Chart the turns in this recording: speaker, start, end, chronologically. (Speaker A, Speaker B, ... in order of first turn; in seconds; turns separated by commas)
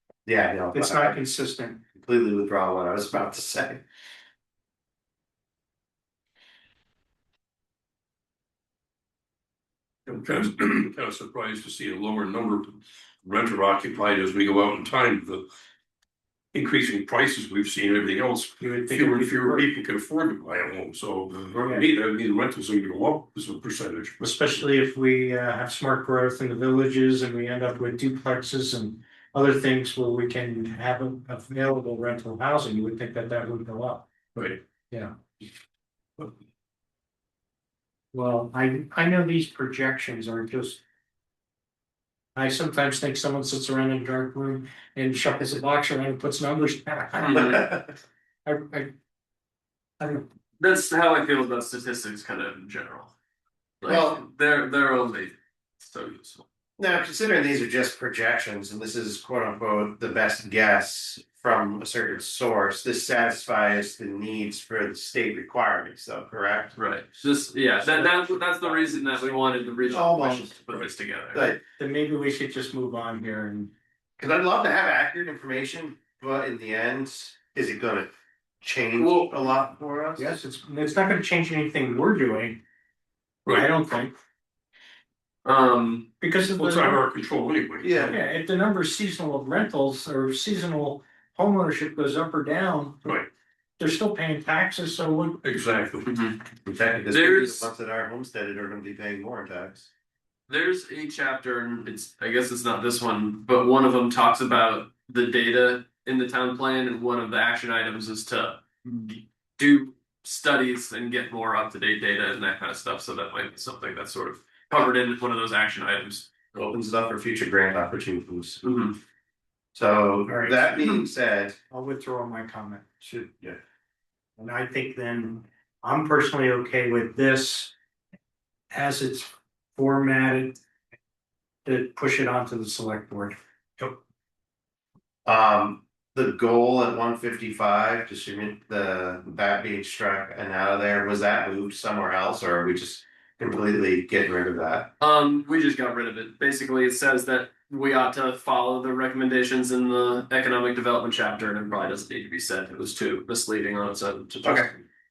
Speaker A: 0.2-1.2, Speaker B: 0.7-1.8, Speaker A: 2.0-3.8, Speaker C: 10.1-15.4, Speaker C: 16.5-24.2, Speaker B: 18.6-19.6, Speaker B: 21.6-21.8, Speaker B: 24.2-35.1, Speaker B: 38.1-40.8, Speaker B: 42.3-47.7, Speaker D: 47.2-47.6, Speaker A: 47.4-47.9, Speaker B: 48.5-48.9, Speaker B: 50.0-50.3, Speaker D: 50.6-53.1, Speaker D: 53.8-56.5, Speaker A: 53.9-54.2, Speaker A: 56.8-66.8, Speaker D: 66.7-71.4, Speaker A: 69.9-70.5, Speaker A: 71.3-71.6, Speaker B: 71.8-73.7, Speaker A: 74.2-80.3, Speaker D: 79.0-79.3, Speaker B: 80.2-82.6, Speaker B: 83.5-84.1, Speaker D: 85.4-86.1, Speaker B: 86.2-87.0, Speaker C: 86.5-88.2, Speaker A: 87.8-88.2, Speaker B: 88.0-93.0, Speaker C: 93.0-93.3, Speaker B: 93.8-95.4, Speaker C: 95.4-96.1, Speaker D: 96.0-96.5, Speaker A: 96.6-99.9, Speaker D: 97.1-97.7, Speaker D: 100.5-116.3, Speaker A: 116.7-118.6, Speaker D: 118.6-119.0, Speaker A: 119.7-121.6, Speaker B: 120.3-121.0, Speaker B: 121.7-123.3, Speaker B: 124.4-127.7, Speaker B: 128.7-130.6, Speaker B: 131.6-134.0, Speaker A: 135.2-144.9, Speaker D: 145.0-154.8